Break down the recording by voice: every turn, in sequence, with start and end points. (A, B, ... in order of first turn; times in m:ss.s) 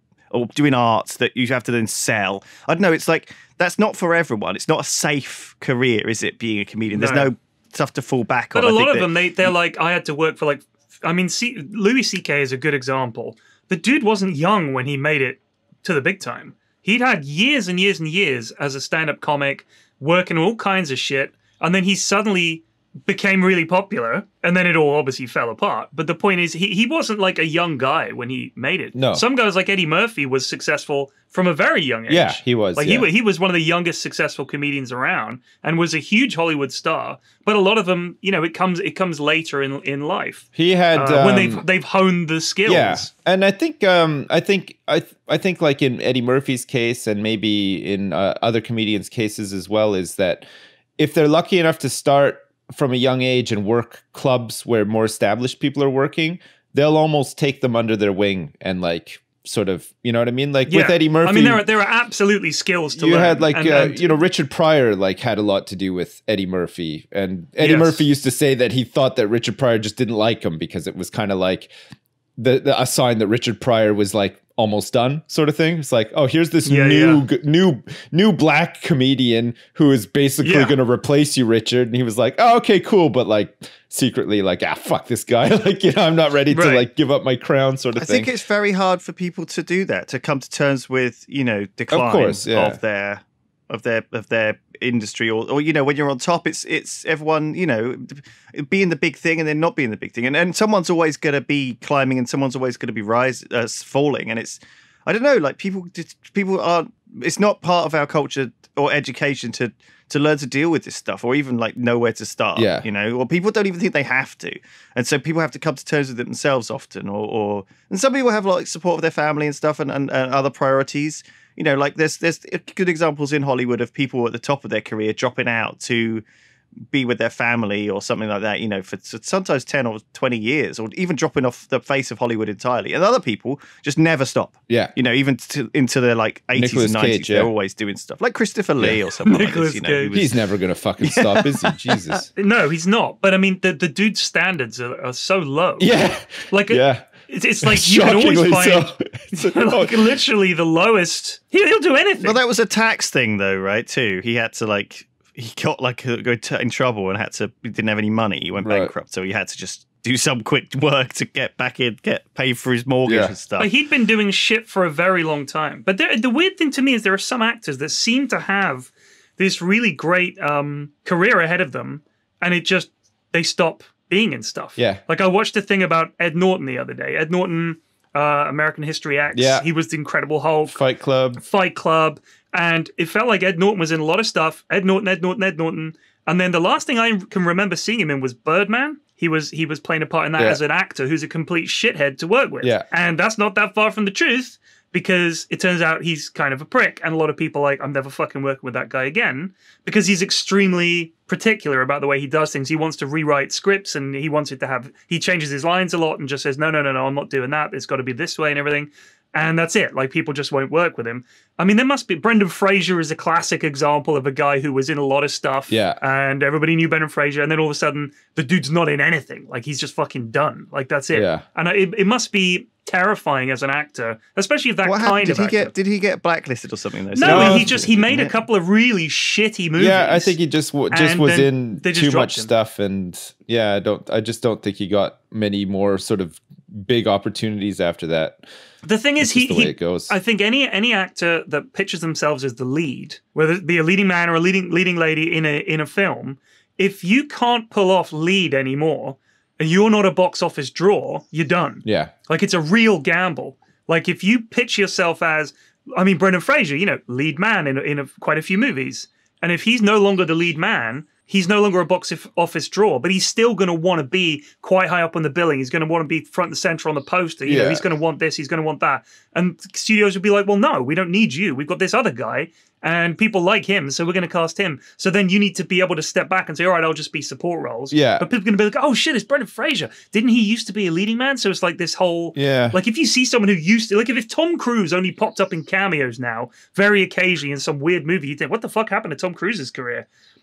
0:00.3-0:09.5 A
0:06.9-0:07.3 B
0:08.5-0:43.1 B
0:28.9-0:29.2 C
0:32.1-0:33.1 C
0:40.5-0:41.6 C
0:42.6-0:50.4 C
0:51.0-1:01.6 C
1:00.7-1:04.0 B
1:02.9-1:11.7 C
1:07.6-1:08.0 B
1:12.4-1:28.3 C
1:16.6-1:17.2 B
1:20.4-1:20.8 B
1:26.5-1:26.8 B
1:28.0-2:06.2 A
1:31.9-1:32.8 C
1:52.6-1:52.8 C
2:06.9-2:20.3 A
2:16.6-2:17.5 C
2:19.2-2:20.2 B
2:20.1-2:22.3 C
2:21.0-2:22.2 A
2:22.4-2:25.9 B
2:25.8-2:27.1 C
2:26.5-2:32.4 B
2:27.6-2:30.1 C
2:32.2-2:43.7 A
2:38.6-2:38.9 C
2:43.0-2:43.3 C
2:43.6-3:00.8 B
2:59.3-2:59.6 C
3:00.7-3:01.4 C
3:01.4-3:45.7 B
3:35.7-3:36.0 C
3:41.1-3:41.4 C
3:44.8-3:48.3 A
3:47.1-3:50.3 B
3:47.2-3:47.8 C
3:49.8-3:58.4 C
3:50.9-3:52.5 B
3:58.8-4:50.0 B
3:59.2-4:00.1 C
4:11.8-4:12.1 C
4:27.4-4:27.8 C
4:37.9-4:38.3 C
4:42.4-4:42.8 C